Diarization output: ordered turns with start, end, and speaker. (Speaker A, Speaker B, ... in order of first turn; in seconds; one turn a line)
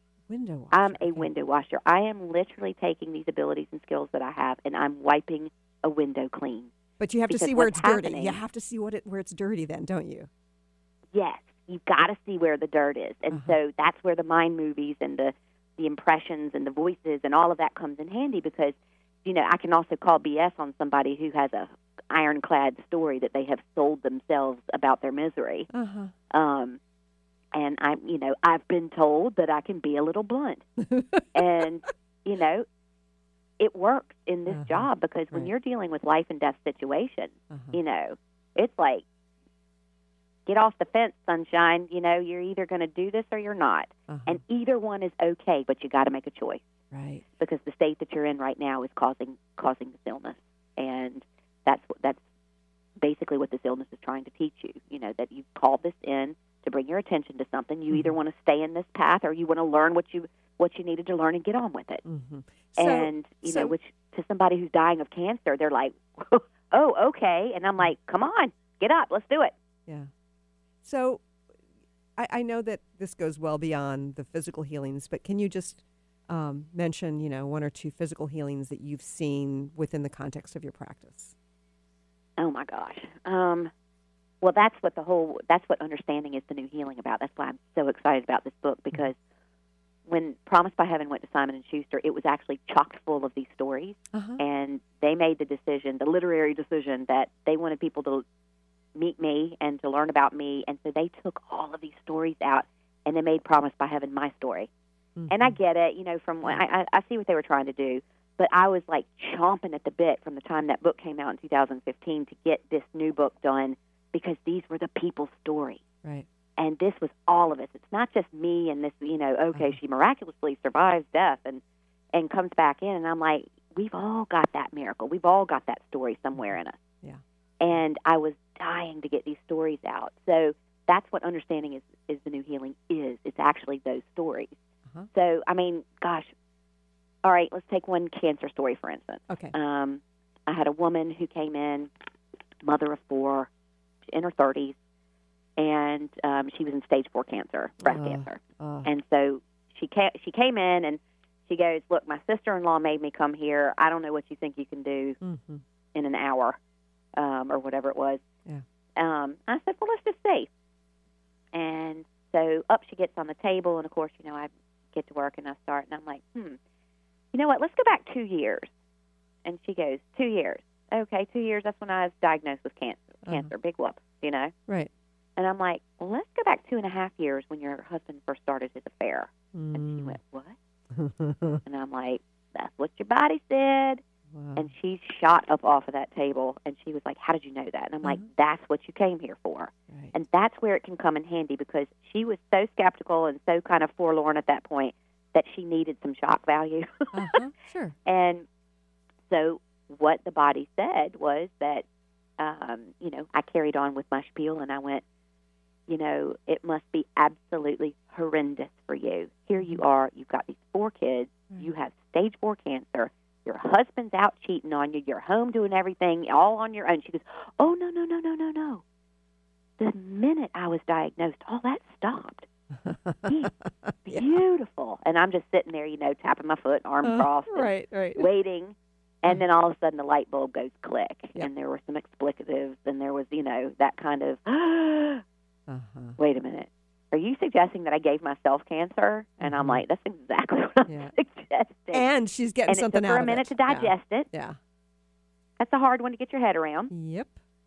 Speaker A: 0.3-1.3
Speaker B: 0.7-6.7
Speaker A: 7.0-10.3
Speaker B: 7.3-8.4
Speaker B: 11.1-25.7
Speaker A: 13.3-13.6
Speaker A: 25.7-26.1
Speaker B: 26.3-26.8
Speaker B: 27.5-30.6
Speaker A: 30.8-31.4
Speaker B: 31.3-32.6
Speaker B: 33.6-39.0
Speaker A: 34.5-35.5
Speaker A: 37.5-37.8
Speaker B: 40.5-46.6
Speaker A: 44.1-44.4
Speaker A: 46.9-47.2
Speaker B: 47.4-52.2
Speaker B: 53.0-62.0
Speaker A: 62.0-63.7
Speaker B: 62.8-69.5
Speaker A: 70.8-71.2
Speaker A: 72.2-81.3
Speaker B: 82.4-83.7
Speaker B: 84.4-89.2
Speaker B: 90.0-98.2
Speaker A: 94.1-94.4
Speaker B: 98.9-104.7
Speaker A: 105.2-105.5
Speaker B: 105.3-115.8
Speaker B: 116.6-121.6
Speaker B: 122.1-126.8
Speaker A: 126.4-127.7
Speaker B: 127.6-134.5
Speaker B: 135.1-136.3
Speaker B: 137.2-141.9
Speaker A: 139.3-139.5
Speaker B: 142.6-143.5
Speaker B: 144.1-144.7
Speaker B: 145.6-155.2
Speaker A: 147.8-148.9
Speaker A: 155.2-155.6
Speaker B: 155.9-156.6
Speaker B: 157.1-158.2
Speaker B: 159.0-160.5
Speaker B: 161.5-166.6
Speaker B: 167.3-168.7
Speaker B: 169.4-174.5
Speaker A: 173.2-173.5
Speaker B: 175.4-180.6
Speaker A: 179.5-180.2
Speaker A: 180.9-181.6
Speaker B: 181.6-184.0
Speaker A: 184.3-184.7
Speaker B: 184.5-197.3
Speaker A: 197.1-197.9
Speaker B: 198.1-198.4
Speaker B: 199.3-201.8
Speaker B: 202.4-205.0
Speaker B: 205.9-218.8
Speaker B: 219.8-222.5
Speaker A: 222.8-224.4
Speaker B: 223.2-223.5
Speaker B: 224.1-235.2
Speaker A: 227.0-228.3
Speaker A: 235.7-236.2
Speaker B: 236.2-242.0
Speaker A: 239.4-239.8
Speaker A: 240.8-241.1
Speaker A: 241.9-244.6
Speaker B: 242.7-244.3
Speaker B: 245.6-246.9
Speaker A: 246.9-247.4